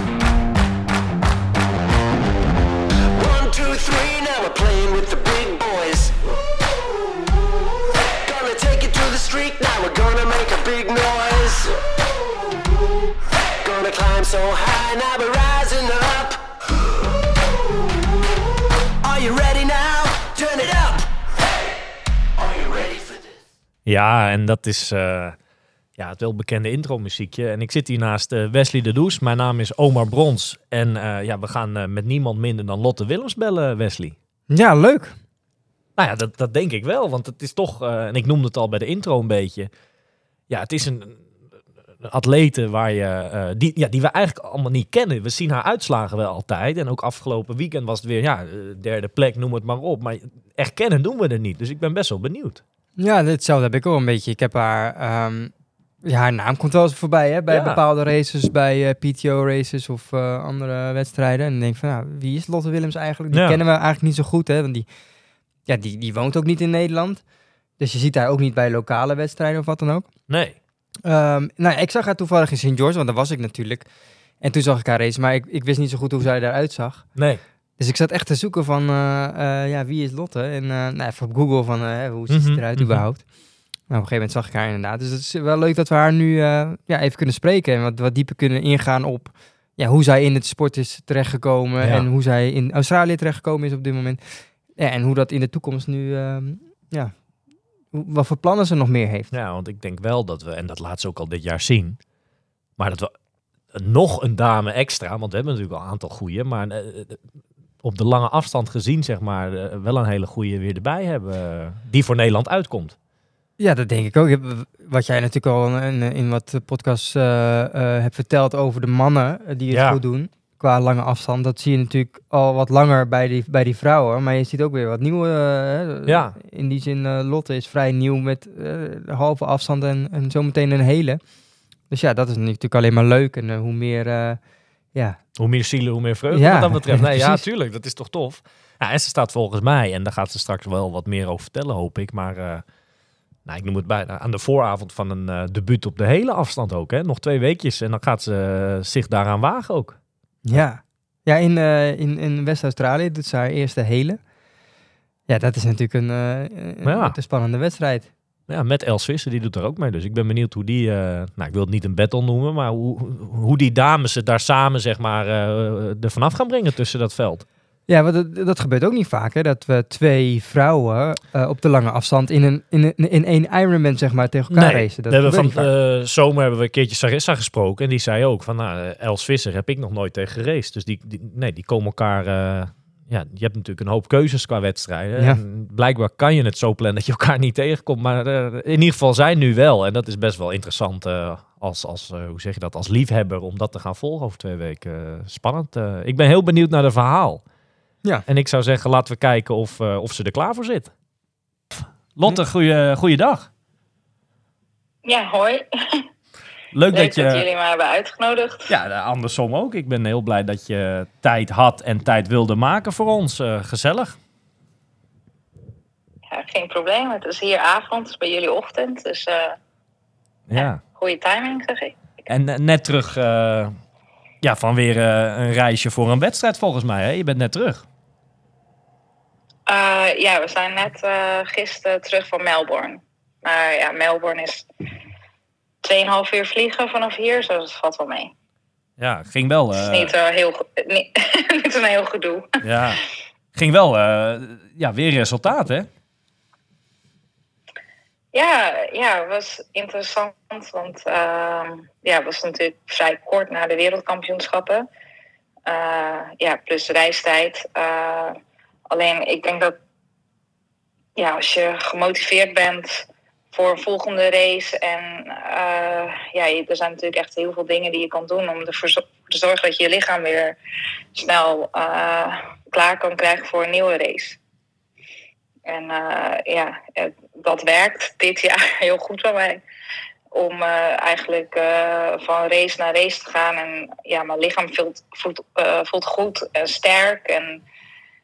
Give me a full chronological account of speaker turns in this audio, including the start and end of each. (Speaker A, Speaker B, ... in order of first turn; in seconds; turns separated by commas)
Speaker A: 3.1-6.1, Speaker A: 7.9-11.8, Speaker A: 13.4-16.4, Speaker A: 19.0-21.1, Speaker A: 22.4-23.4, Speaker B: 23.9-25.4, Speaker B: 26.0-34.1, Speaker C: 34.5-35.2, Speaker B: 36.0-39.7, Speaker B: 40.5-41.2, Speaker B: 42.0-52.6, Speaker C: 53.0-64.8, Speaker B: 57.5-57.8, Speaker B: 63.3-63.6, Speaker C: 65.7-67.2, Speaker C: 67.8-70.1, Speaker B: 70.3-70.5, Speaker C: 71.0-73.9, Speaker C: 74.4-77.2, Speaker B: 77.2-77.4, Speaker C: 77.8-83.3, Speaker B: 82.3-83.0, Speaker C: 83.9-97.2, Speaker B: 91.8-92.1, Speaker C: 97.9-99.3, Speaker B: 99.3-102.0, Speaker B: 102.8-103.1, Speaker B: 103.7-107.2, Speaker B: 107.8-113.0, Speaker C: 113.6-131.2, Speaker B: 119.7-120.0, Speaker B: 126.1-126.4, Speaker C: 131.9-134.4, Speaker C: 134.9-135.2, Speaker B: 135.4-142.6, Speaker C: 136.3-137.4, Speaker B: 143.4-150.0, Speaker C: 150.4-154.2, Speaker C: 155.3-158.1, Speaker B: 156.8-157.2, Speaker B: 158.5-167.4, Speaker C: 167.9-175.7, Speaker B: 174.5-197.4, Speaker B: 198.3-200.9, Speaker B: 201.7-203.5, Speaker D: 205.0-206.0, Speaker B: 206.7-207.4, Speaker D: 206.9-208.7, Speaker B: 208.7-214.2, Speaker D: 216.3-219.6, Speaker B: 220.5-220.8, Speaker D: 220.6-222.0, Speaker B: 222.3-223.8, Speaker B: 224.4-227.8, Speaker D: 229.7-234.7, Speaker D: 235.8-238.3, Speaker B: 239.0-240.1, Speaker D: 239.8-242.5, Speaker B: 242.6-243.0, Speaker B: 243.5-245.9, Speaker D: 248.3-254.9, Speaker D: 255.7-258.4, Speaker D: 258.9-259.8, Speaker D: 261.1-270.6, Speaker D: 271.1-274.4, Speaker D: 275.6-279.6, Speaker D: 280.3-287.6